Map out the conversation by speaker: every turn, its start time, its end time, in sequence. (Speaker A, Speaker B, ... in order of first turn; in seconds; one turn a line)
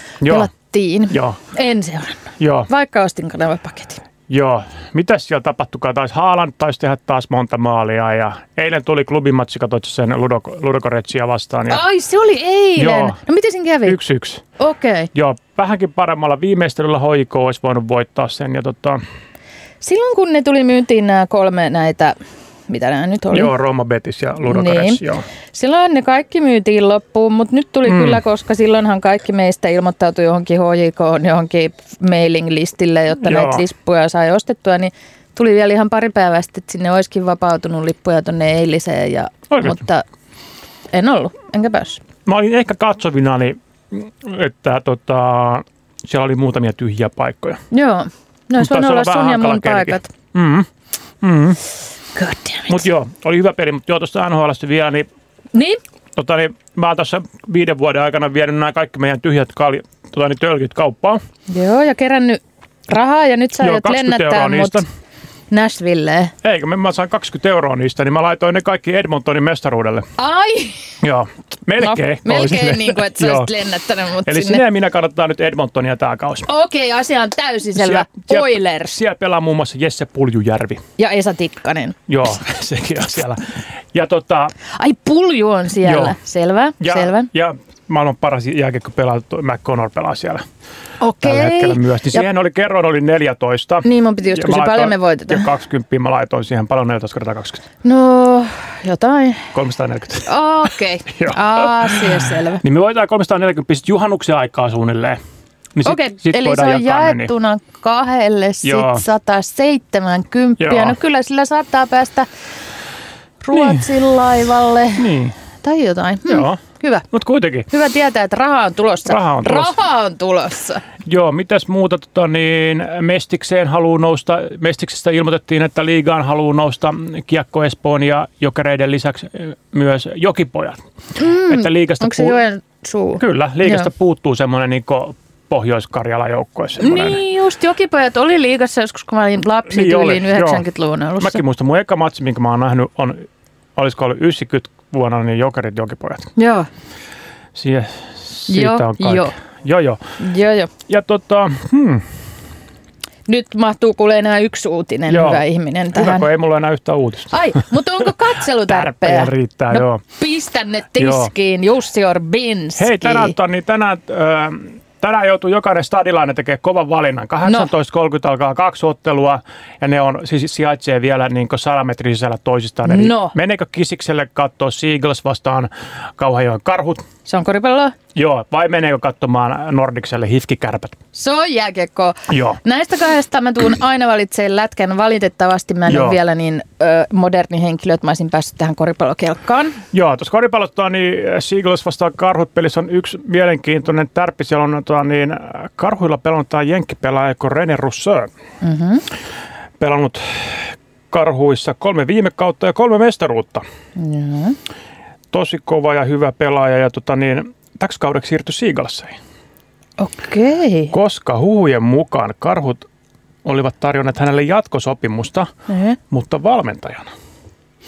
Speaker A: 0.2-0.5
Speaker B: 0.2-4.0
Speaker A: 1.1-1.4
Speaker A: 2.4-2.7
Speaker A: 4.3-11.8
Speaker B: 11.7-14.0
Speaker A: 12.8-13.2
Speaker A: 13.8-14.4
Speaker B: 14.6-15.1
Speaker A: 15.1-19.0
Speaker B: 19.8-22.2
Speaker B: 22.7-23.5
Speaker A: 23.3-25.2
Speaker B: 24.4-25.0
Speaker B: 25.5-40.0
Speaker A: 27.9-28.2
Speaker A: 33.2-33.6
Speaker A: 39.5-39.8
Speaker B: 40.9-42.0
Speaker A: 42.3-47.6
Speaker B: 47.7-50.1
Speaker A: 48.6-50.7
Speaker A: 51.2-51.6
Speaker B: 52.1-52.8
Speaker A: 52.7-55.1
Speaker B: 55.5-55.8
Speaker A: 56.2-61.2
Speaker B: 61.5-64.8
Speaker A: 63.6-64.9
Speaker B: 65.5-66.3
Speaker A: 66.4-70.1
Speaker B: 70.2-70.9
Speaker A: 71.0-73.5
Speaker B: 71.8-74.6
Speaker A: 74.2-76.5
Speaker B: 76.5-79.0
Speaker A: 77.8-80.8
Speaker B: 81.0-82.0
Speaker A: 82.1-84.5
Speaker B: 84.8-87.3
Speaker A: 85.8-86.2
Speaker A: 86.8-90.4
Speaker B: 91.0-92.3
Speaker A: 91.2-97.6
Speaker B: 93.8-95.5
Speaker B: 97.8-99.5
Speaker A: 99.5-100.3
Speaker B: 100.3-102.6
Speaker A: 101.1-105.2
Speaker A: 105.8-107.3
Speaker B: 105.8-112.3
Speaker A: 108.6-109.0
Speaker A: 110.6-111.0
Speaker B: 113.4-115.1
Speaker A: 113.5-113.9
Speaker A: 115.0-115.3
Speaker B: 115.6-117.1
Speaker A: 116.3-116.6
Speaker A: 117.1-117.7
Speaker B: 117.7-120.8
Speaker A: 119.1-119.8
Speaker A: 121.0-130.8
Speaker B: 131.2-133.9
Speaker A: 131.5-132.4
Speaker A: 133.2-137.2
Speaker B: 136.8-141.4
Speaker A: 139.7-140.7
Speaker A: 141.2-143.3
Speaker A: 143.8-146.3
Speaker B: 146.4-146.7
Speaker A: 147.5-150.0
Speaker B: 148.5-149.3
Speaker B: 150.2-150.7
Speaker A: 150.9-152.0
Speaker B: 153.3-156.3
Speaker A: 155.1-157.7
Speaker B: 157.3-163.3
Speaker A: 158.7-160.0
Speaker A: 161.0-161.3
Speaker A: 162.8-177.0
Speaker B: 167.4-167.7
Speaker B: 172.9-173.3
Speaker B: 177.2-177.9
Speaker A: 178.2-181.0
Speaker B: 181.1-189.8
Speaker A: 182.3-182.6
Speaker A: 185.9-186.2
Speaker A: 189.9-198.3
Speaker B: 198.6-199.0
Speaker A: 199.8-203.7
Speaker B: 204.0-204.6
Speaker A: 205.3-209.2
Speaker B: 210.0-210.9
Speaker A: 210.9-212.8
Speaker A: 213.4-215.5
Speaker B: 215.7-216.0
Speaker A: 216.1-217.1